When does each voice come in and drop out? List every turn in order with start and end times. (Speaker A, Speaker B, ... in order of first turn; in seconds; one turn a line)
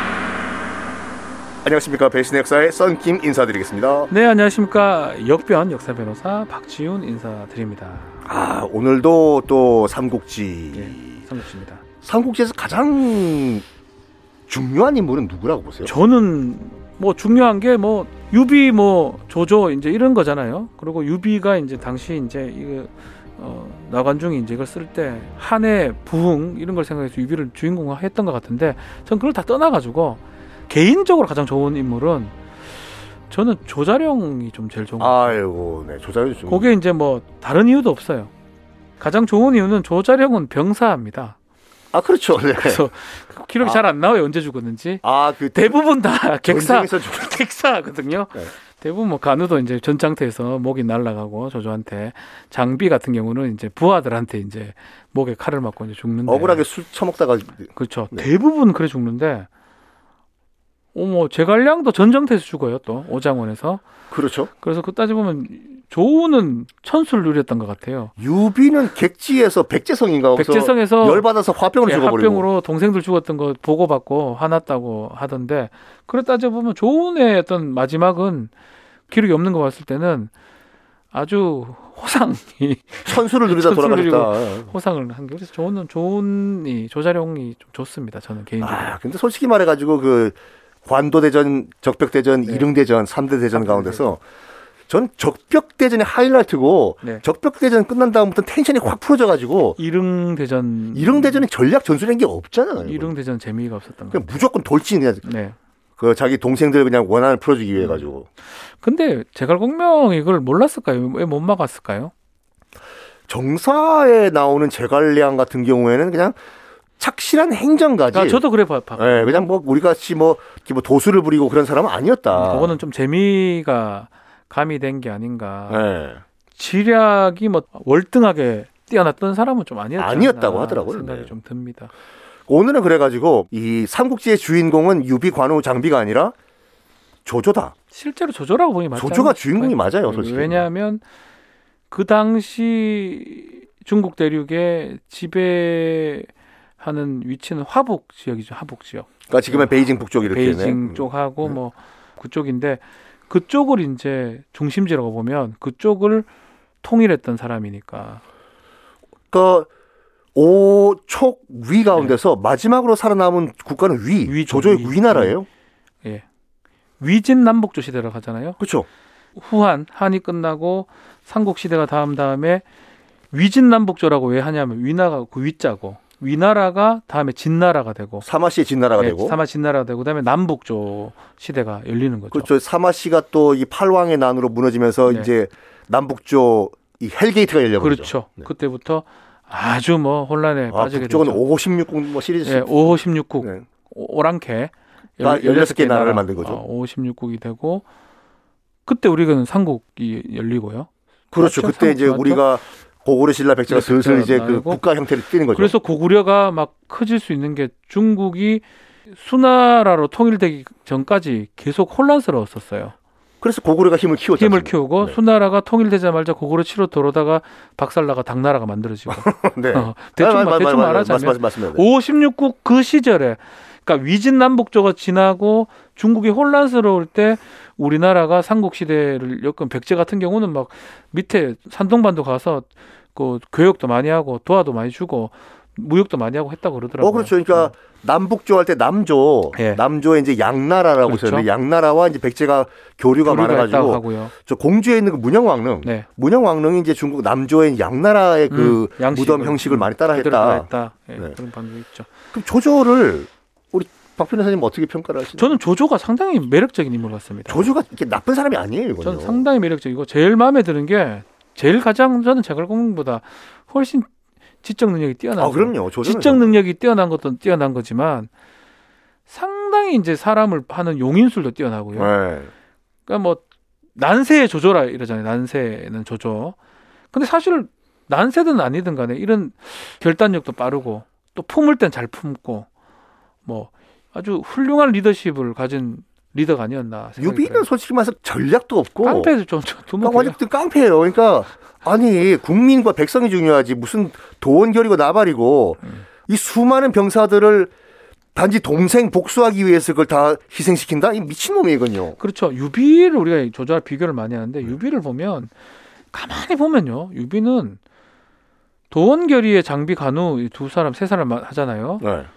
Speaker A: 1.6-4.1
Speaker B: 4.1-8.2
Speaker A: 8.2-11.2
Speaker B: 10.7-11.8
Speaker A: 12.0-13.6
Speaker A: 14.5-15.9
Speaker B: 15.9-32.4
Speaker B: 33.3-35.4
Speaker A: 35.0-36.7
Speaker B: 36.5-38.3
Speaker B: 39.0-41.4
Speaker A: 41.9-42.8
Speaker B: 42.5-56.6
Speaker A: 45.0-45.8
Speaker A: 46.4-47.3
Speaker A: 56.3-58.3
Speaker B: 57.7-59.5
Speaker B: 60.9-63.8
Speaker A: 64.1-64.5
Speaker B: 64.6-68.1
Speaker A: 68.2-72.5
Speaker B: 70.3-71.2
Speaker B: 71.8-78.5
Speaker B: 79.1-80.3
Speaker B: 81.1-88.9
Speaker A: 83.0-84.7
Speaker A: 88.6-94.2
Speaker B: 93.5-94.2
Speaker A: 94.9-99.8
Speaker B: 99.8-101.4
Speaker A: 100.9-103.1
Speaker B: 102.8-104.4
Speaker A: 104.1-105.2
Speaker B: 105.2-105.6
Speaker A: 106.0-108.2
Speaker B: 107.8-108.0
Speaker B: 108.7-112.1
Speaker A: 113.3-116.3
Speaker A: 117.0-118.4
Speaker B: 118.1-119.5
Speaker A: 119.0-122.8
Speaker B: 122.3-125.8
Speaker A: 125.7-126.2
Speaker B: 126.5-131.9
Speaker A: 130.0-131.3
Speaker A: 132.5-136.3
Speaker A: 137.2-137.7
Speaker B: 137.9-141.0
Speaker A: 138.9-140.7
Speaker B: 141.9-156.3
Speaker A: 149.3-151.6
Speaker B: 156.8-158.2
Speaker A: 159.3-159.7
Speaker A: 160.3-165.4
Speaker B: 164.2-165.4
Speaker B: 167.0-168.6
Speaker A: 168.6-168.9
Speaker B: 169.3-172.6
Speaker B: 173.3-178.2
Speaker A: 178.2-179.4
Speaker B: 179.0-182.5
Speaker A: 182.3-188.5
Speaker B: 187.8-191.4
Speaker A: 190.7-193.6
Speaker B: 192.4-197.8
Speaker A: 195.2-196.6
Speaker B: 198.8-202.5
Speaker A: 201.3-205.8
Speaker B: 203.7-204.8
Speaker B: 205.5-212.9
Speaker A: 213.4-215.2
Speaker B: 214.4-237.7
Speaker A: 219.1-221.8
Speaker A: 237.0-251.3
Speaker B: 239.5-239.8
Speaker B: 241.1-241.5
Speaker B: 243.2-244.3
Speaker B: 248.5-252.1
Speaker A: 252.3-255.6
Speaker B: 255.3-257.7
Speaker A: 257.5-259.4
Speaker B: 259.0-264.1
Speaker B: 264.6-268.3
Speaker A: 265.4-266.6
Speaker B: 269.3-272.1
Speaker A: 271.9-272.5
Speaker B: 273.1-273.4
Speaker B: 274.0-276.6
Speaker B: 277.1-282.7
Speaker B: 283.5-287.6
Speaker A: 287.2-289.3
Speaker B: 289.0-290.4
Speaker A: 290.0-297.7
Speaker A: 298.4-302.2
Speaker B: 302.2-305.5
Speaker B: 306.1-307.8
Speaker B: 308.9-312.1
Speaker A: 312.0-312.3